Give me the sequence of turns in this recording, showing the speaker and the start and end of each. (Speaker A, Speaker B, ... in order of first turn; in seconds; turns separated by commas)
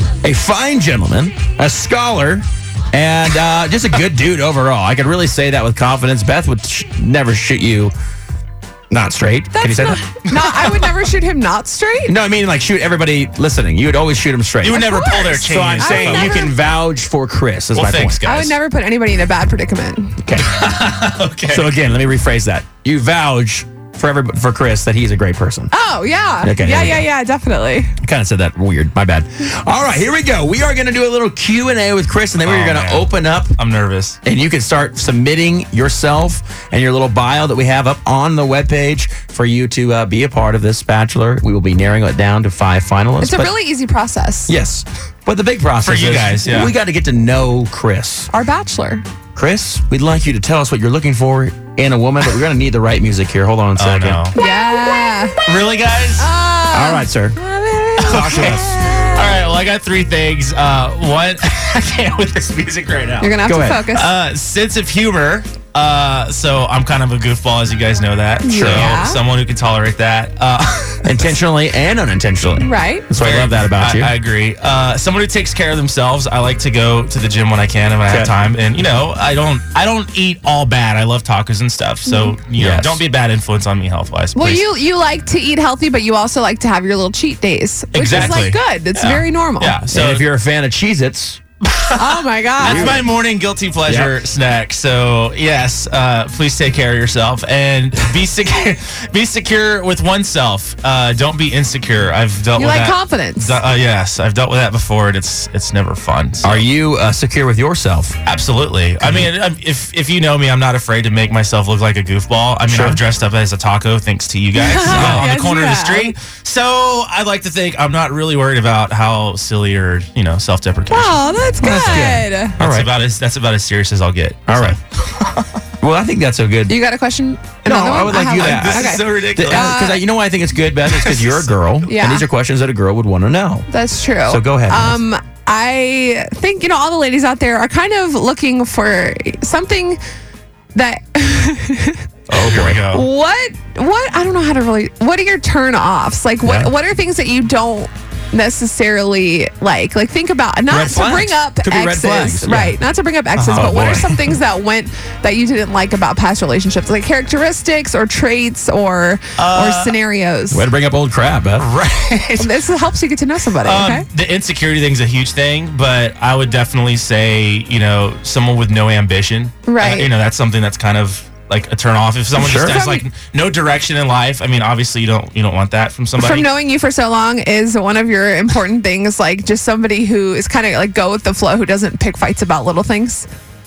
Speaker A: 0.2-7.9, Speaker A: 8.9-10.0, Speaker B: 9.5-12.2, Speaker C: 10.2-10.9, Speaker A: 12.1-18.2, Speaker C: 14.6-16.5, Speaker B: 14.7-16.5, Speaker C: 17.7-18.6, Speaker B: 18.2-20.2, Speaker A: 20.2-20.5, Speaker C: 20.4-21.7, Speaker A: 21.5-25.7, Speaker B: 25.7-27.9, Speaker A: 26.4-27.1, Speaker A: 28.0-33.5, Speaker C: 32.4-34.2, Speaker A: 34.2-43.5, Speaker B: 43.2-44.5, Speaker A: 44.5-48.3, Speaker C: 45.8-46.7, Speaker B: 48.3-49.0, Speaker A: 49.3-54.2, Speaker C: 53.8-54.4, Speaker B: 54.4-55.4, Speaker C: 55.4-56.3, Speaker B: 56.2-59.3, Speaker A: 56.7-57.4, Speaker C: 58.0-71.4, Speaker A: 58.0-58.8, Speaker B: 63.2-64.1, Speaker A: 63.5-63.8, Speaker B: 68.4-69.2, Speaker A: 68.5-68.9, Speaker A: 71.0-74.1, Speaker B: 72.6-73.1, Speaker C: 73.2-84.6, Speaker A: 78.1-78.3, Speaker B: 82.0-82.4, Speaker A: 82.6-83.0, Speaker B: 84.3-89.8, Speaker C: 87.9-90.2, Speaker A: 88.0-88.4, Speaker A: 89.9-91.4, Speaker C: 91.6-106.7, Speaker B: 92.0-93.0, Speaker A: 92.6-93.1, Speaker A: 93.9-94.2, Speaker B: 102.5-103.6, Speaker A: 106.4-108.2, Speaker C: 108.2-125.5, Speaker A: 109.0-109.3, Speaker A: 112.7-113.0, Speaker B: 114.6-116.2, Speaker A: 114.9-115.3, Speaker B: 120.9-122.6, Speaker A: 121.6-122.9, Speaker A: 124.5-124.8, Speaker A: 125.8-126.8, Speaker B: 126.7-130.0, Speaker A: 127.7-133.7, Speaker C: 128.3-129.8, Speaker C: 130.8-131.5, Speaker B: 131.8-132.3, Speaker B: 133.7-140.0, Speaker A: 134.2-135.0, Speaker B: 140.7-142.0, Speaker C: 142.3-143.1, Speaker A: 142.3-142.8, Speaker B: 142.9-160.7, Speaker A: 146.4-146.7, Speaker A: 150.7-152.8, Speaker C: 153.3-154.2, Speaker A: 153.5-154.2, Speaker C: 159.4-159.9, Speaker A: 160.5-161.7, Speaker C: 161.6-162.7, Speaker B: 162.4-164.1, Speaker C: 163.6-176.5, Speaker B: 169.7-170.1, Speaker A: 172.3-172.8, Speaker B: 172.6-173.0, Speaker B: 176.2-183.3